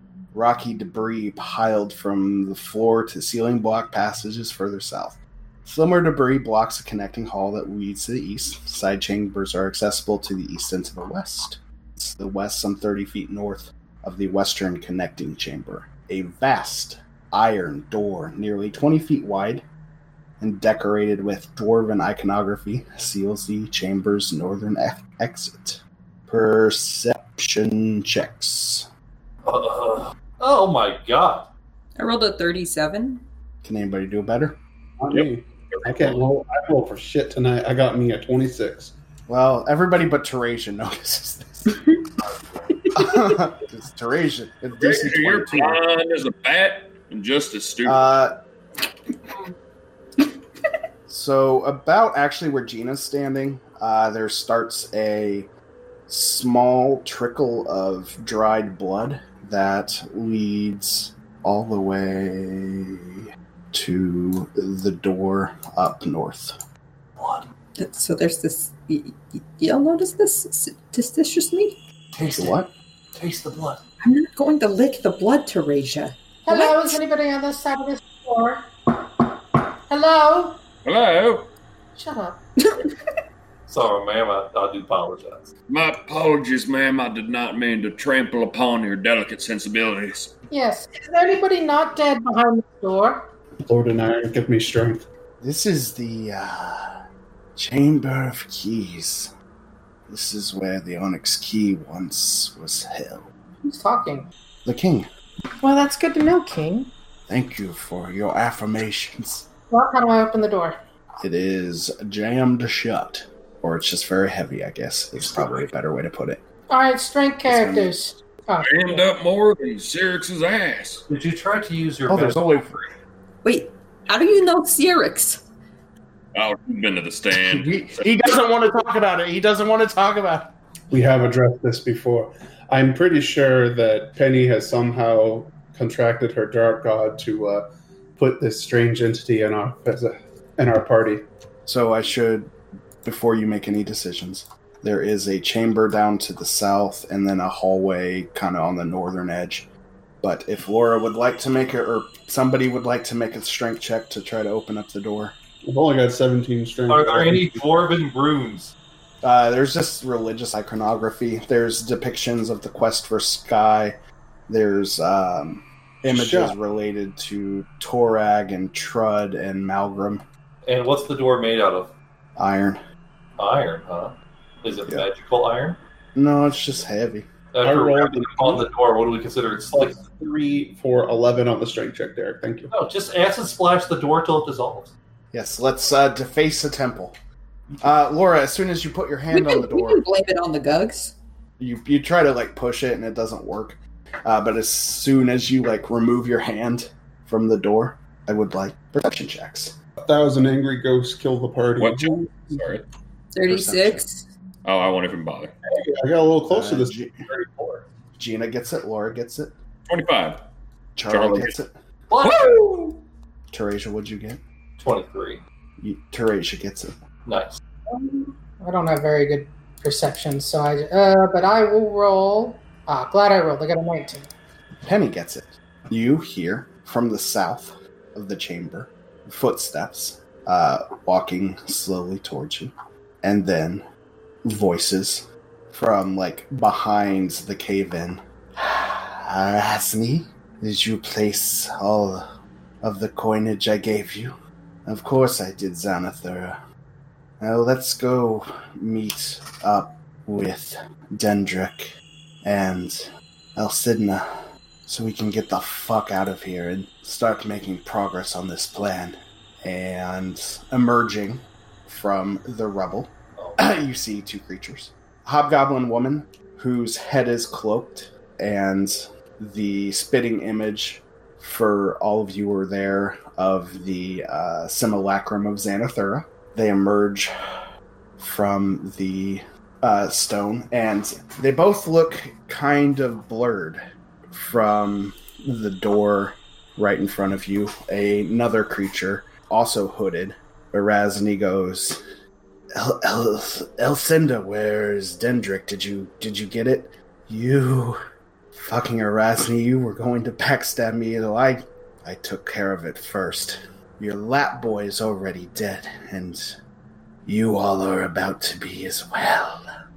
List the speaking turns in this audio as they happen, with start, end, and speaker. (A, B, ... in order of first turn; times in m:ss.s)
0:00.3-0:19.6 A
0:20.4-0:28.9 A
0:29.4-0:31.5 B
0:32.0-0:33.2 C
0:33.6-0:34.6 A
0:35.0-0:38.9 D
0:35.1-0:36.2 E
0:39.3-0:41.8 A
0:42.2-0:42.7 B
0:42.9-0:43.4 C
0:42.9-0:45.8 A
0:44.8-0:48.0 E
0:47.8-0:48.3 A
0:51.1-0:55.5 A
0:56.1-1:06.5 A
1:07.2-1:07.4 B
1:07.8-1:11.8 C
1:12.1-1:12.6 B
1:12.3-1:12.7 A
1:13.1-1:13.8 B
1:14.0-1:17.0 C
1:16.4-1:19.2 F
1:19.9-1:20.6 F
1:20.8-1:21.5 E
1:21.9-1:22.4 F
1:22.6-1:22.9 C
1:23.7-1:25.5 B
1:25.7-1:30.3 E
1:30.5-1:33.3 F
1:33.6-1:35.0 D
1:35.4-1:36.9 A
1:37.6-1:39.3 A
1:40.1-1:43.3 A
1:43.6-1:44.3 F
1:44.6-1:45.1 A
1:45.6-1:46.9 F
1:47.3-1:49.5 A
1:49.7-1:50.8 F
1:51.2-1:56.4 A
1:56.7-1:59.0 F
1:57.4-1:57.9 A
1:58.6-2:01.0 E
2:01.1-2:02.6 B
2:02.1-2:02.9 A
2:03.4-2:05.4 C
2:06.3-2:08.1 E
2:07.3-2:10.5 A
2:10.9-2:17.6 D
2:18.2-2:21.2 D
2:21.6-2:22.5 A
2:23.0-2:29.7 A
2:30.2-2:35.4 A
2:35.6-2:37.8 D
2:36.9-2:38.7 B
2:39.2-2:44.0 A
2:44.5-2:50.2 A
2:46.1-2:46.6 D
2:50.6-2:51.9 B
2:52.4-2:52.8 A
2:53.4-2:55.8 B
2:56.1-2:57.3 A
2:57.5-3:00.0 B
2:57.6-2:58.6 D
3:00.0-3:02.7 D
3:02.7-3:04.9 B
3:05.3-3:07.2 A
3:07.8-3:10.0 A
3:09.3-3:11.1 C
3:11.6-3:19.8 A
3:20.0-3:22.7 D
3:21.8-3:22.8 E
3:23.3-3:24.3 C
3:23.4-3:24.0 A
3:24.6-3:25.5 E
3:25.8-3:27.8 D
3:26.5-3:27.2 A
3:28.2-3:29.5 A
3:29.9-3:30.4 E
3:31.0-3:31.8 A
3:31.1-3:31.6 E
3:32.1-3:33.0 B
3:32.2-3:32.7 E
3:33.5-3:34.4 A
3:34.8-3:35.4 B
3:35.8-3:37.0 A
3:37.2-3:37.6 B
3:37.9-3:44.3 F
3:44.8-3:53.8 A
3:54.4-4:02.2 A
4:02.8-4:06.6 A
4:07.4-4:11.9 A
4:12.4-4:13.0 A
4:13.5-4:14.2 A
4:14.8-4:37.3 A
4:23.4-4:23.7 B
4:38.2-4:52.0 A
4:52.8-4:58.0 A
4:58.5-5:06.6 A
5:07.2-5:09.6 A